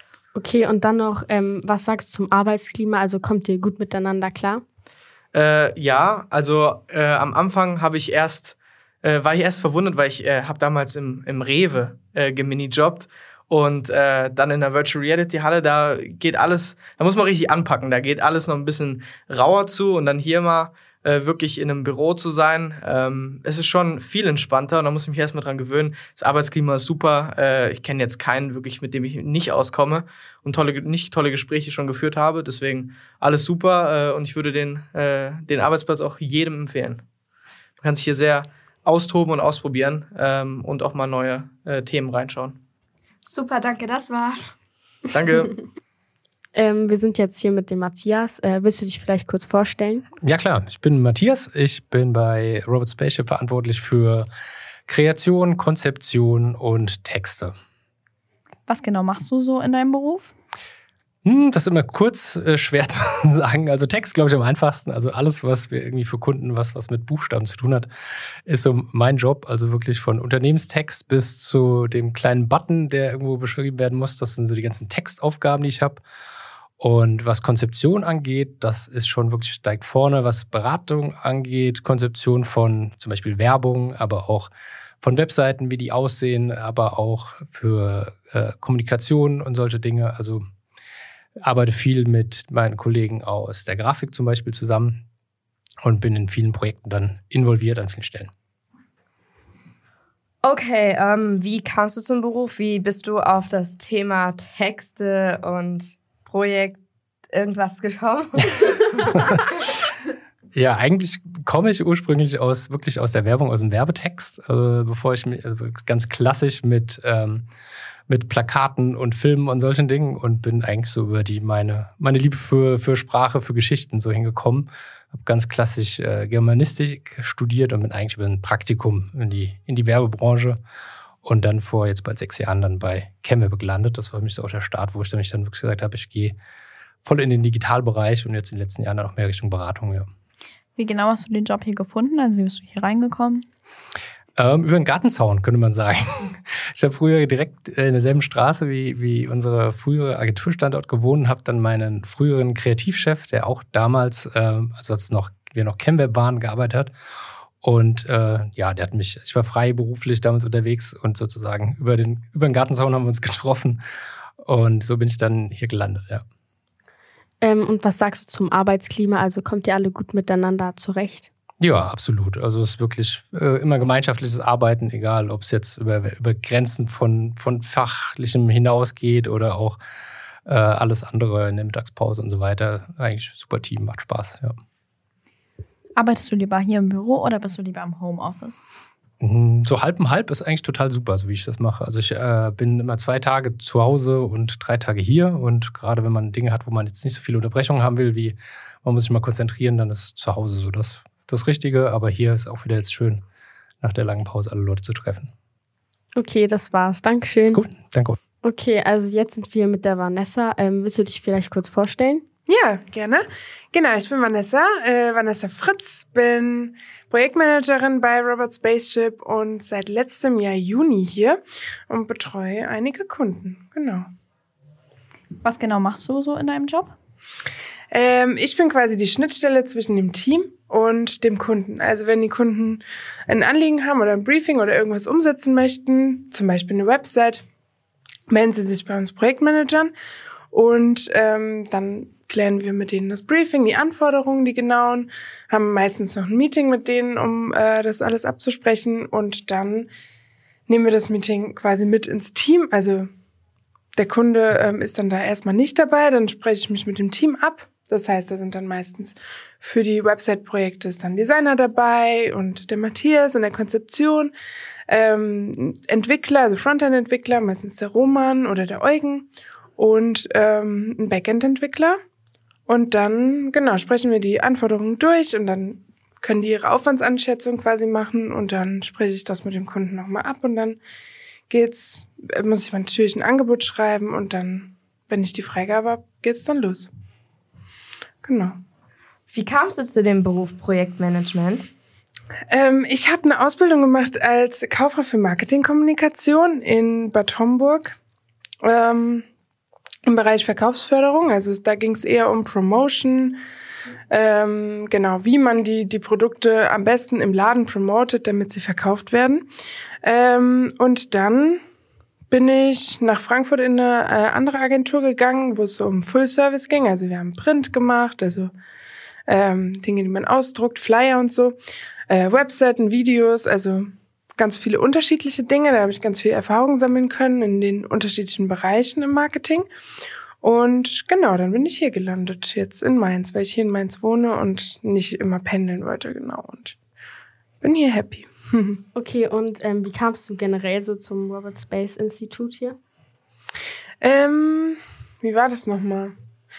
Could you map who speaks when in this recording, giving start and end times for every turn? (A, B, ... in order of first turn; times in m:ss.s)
0:00.3-0:04.6 A
0:05.3-0:37.0 B
0:37.8-0:42.6 B
0:43.2-0:44.5 C
0:45.1-0:45.5 B
0:46.5-0:50.0 A
0:50.2-0:54.3 D
0:54.9-0:57.5 D
0:58.7-1:00.3 E
1:01.2-1:07.9 D
1:08.4-1:16.0 D
1:16.8-1:24.5 D
1:25.0-1:30.4 D
1:31.4-1:35.0 D
1:35.8-1:38.3 D
1:40.4-1:46.8 C
1:47.3-1:49.3 C
1:50.5-1:57.4 D
1:58.1-2:10.6 D
2:11.2-2:16.4 D
2:17.0-2:20.1 D
2:20.8-2:23.4 E
2:24.4-2:36.9 D
2:37.6-2:43.8 D
2:44.4-2:46.2 D
2:47.4-2:51.3 A
2:51.6-2:59.8 D
3:00.4-3:04.6 D
3:06.0-3:08.6 E
3:09.2-3:23.2 D
3:23.8-3:25.3 D
3:26.2-3:27.6 A
3:27.5-3:28.2 D
3:28.4-3:32.2 A
3:32.5-3:44.0 F
3:45.4-3:46.9 E
3:47.9-3:57.4 F
3:58.3-3:59.9 F
4:00.5-4:09.9 F
4:10.7-4:13.1 F
4:14.0-4:24.3 F
4:24.9-4:32.0 F
4:32.7-4:40.8 F
4:41.5-4:46.9 F
4:48.2-4:48.5 F
4:49.3-4:51.7 C
4:52.5-4:58.0 F
4:58.6-4:59.2 F
5:00.0-5:03.4 F
5:04.1-5:09.5 F
5:10.0-5:11.6 F
5:12.3-5:18.5 F
5:19.3-5:21.6 F
5:22.1-5:29.7 F
5:30.4-5:36.8 F
5:37.6-5:38.8 F
5:38.9-5:42.8 A
5:44.0-5:46.1 F